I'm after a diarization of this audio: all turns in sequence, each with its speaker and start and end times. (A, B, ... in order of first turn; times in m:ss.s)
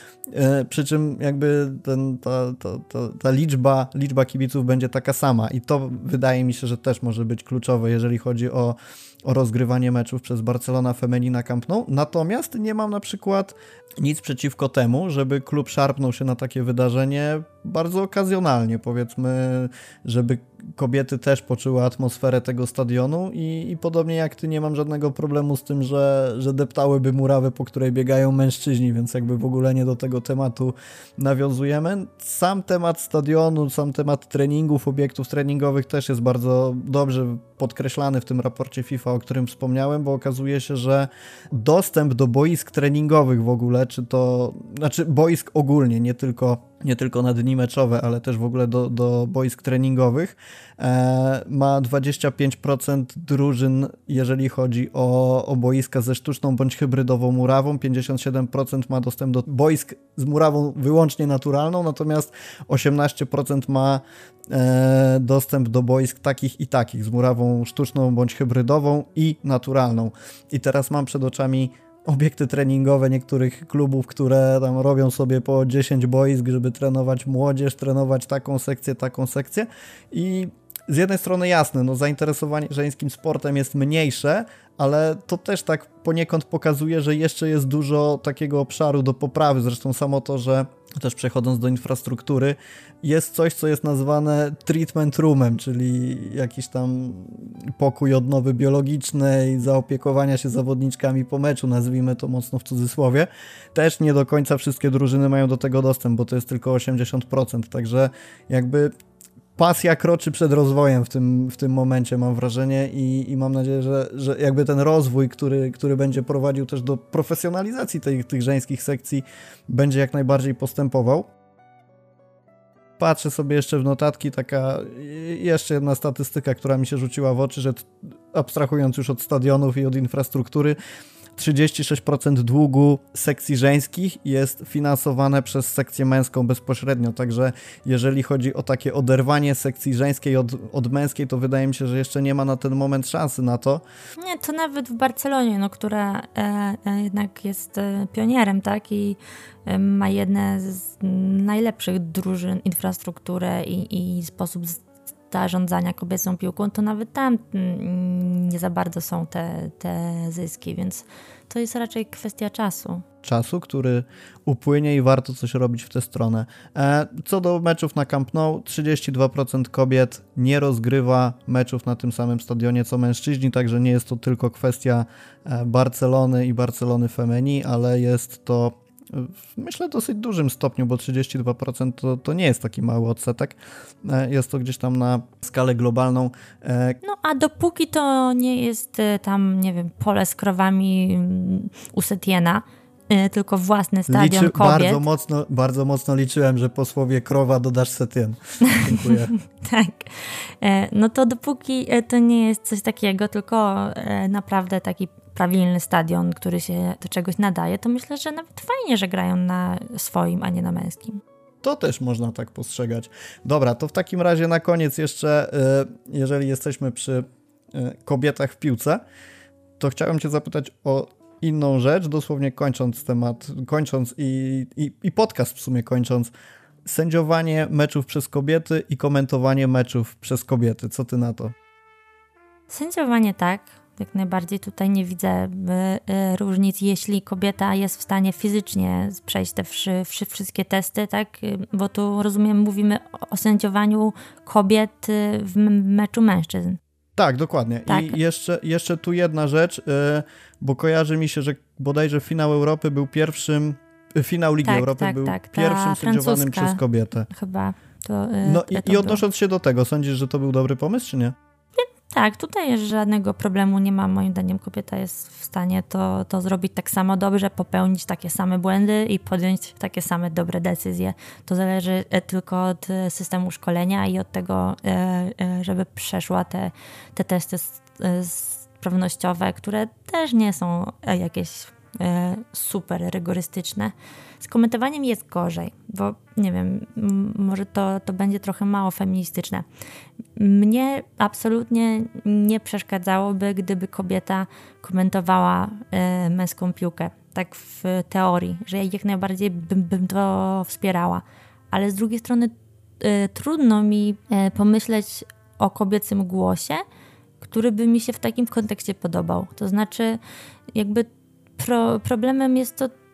0:00.3-1:48.9 A
1:49.6-2:01.3 A
2:03.0-2:10.8 A
2:11.4-2:23.8 A
2:24.2-2:43.0 B
2:43.2-3:07.0 A
3:07.0-3:15.0 B
3:14.1-3:19.3 A
3:18.7-3:31.2 B
3:31.6-3:39.0 A
3:39.8-3:46.3 A
3:46.8-3:51.6 A
3:52.7-4:06.8 B
4:07.2-4:17.3 A
4:07.9-4:08.2 B
4:14.6-4:19.2 B
4:18.4-4:21.4 A
4:21.8-4:49.7 B
4:50.3-5:06.8 B
5:07.4-5:10.2 B
5:10.7-5:13.0 B